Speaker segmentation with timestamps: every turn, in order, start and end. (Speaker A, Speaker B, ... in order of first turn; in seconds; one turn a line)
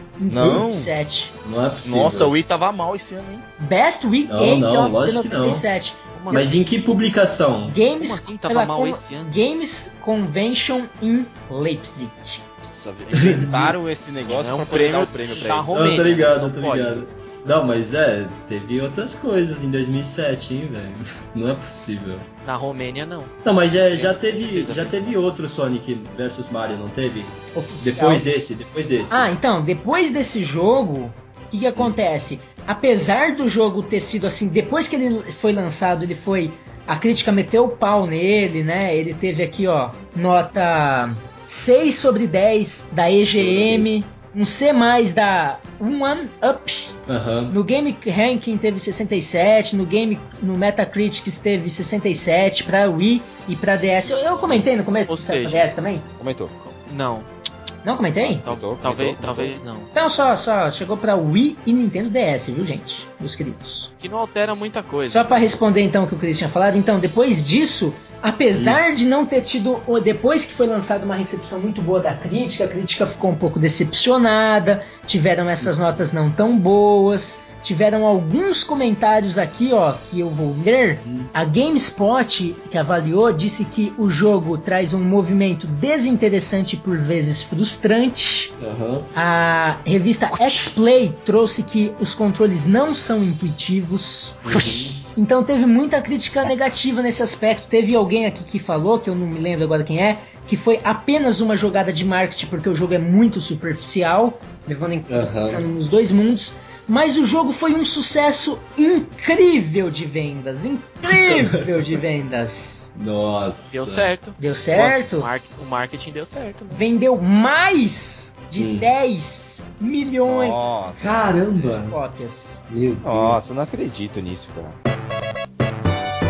Speaker A: 0.2-1.3
Speaker B: 0.3-0.9
Speaker C: 1.4-2.3
Speaker B: 1.8-3.4
Speaker A: 3.6-6.5
Speaker C: 4.3-5.6
Speaker D: 6.1-6.5
Speaker C: 6.3-7.8
Speaker A: 7.7-12.4
Speaker D: 7.9-9.3
Speaker B: 12.6-16.4
Speaker C: 13.1-13.7
Speaker D: 14.2-17.0
Speaker C: 15.7-22.3
Speaker D: 22.4-23.3
Speaker C: 23.4-29.3
Speaker D: 23.9-25.1
Speaker A: 27.5-28.2
Speaker A: 29.1-47.0
Speaker C: 43.4-43.9
Speaker C: 47.1-47.5
Speaker A: 47.5-56.0
Speaker D: 55.1-55.7
Speaker B: 56.2-56.5
Speaker D: 56.6-57.3
Speaker A: 57.8-58.4
Speaker B: 58.2-59.5
Speaker D: 58.4-59.9
Speaker A: 59.9-63.9
Speaker D: 64.0-65.5
Speaker A: 65.1-88.5
Speaker C: 68.5-68.8
Speaker C: 75.6-76.0
Speaker C: 81.0-81.3
Speaker C: 88.6-89.1
Speaker A: 89.1-94.4
Speaker D: 90.3-90.7
Speaker C: 94.5-95.0
Speaker A: 95.2-112.9
Speaker C: 105.1-105.6
Speaker C: 111.1-111.6
Speaker C: 113.0-114.1
Speaker D: 113.7-116.8
Speaker A: 114.4-115.3
Speaker A: 116.7-122.6
Speaker C: 118.5-118.9
Speaker B: 120.2-121.2
Speaker C: 120.9-122.0
Speaker C: 122.7-123.4
Speaker B: 123.0-124.8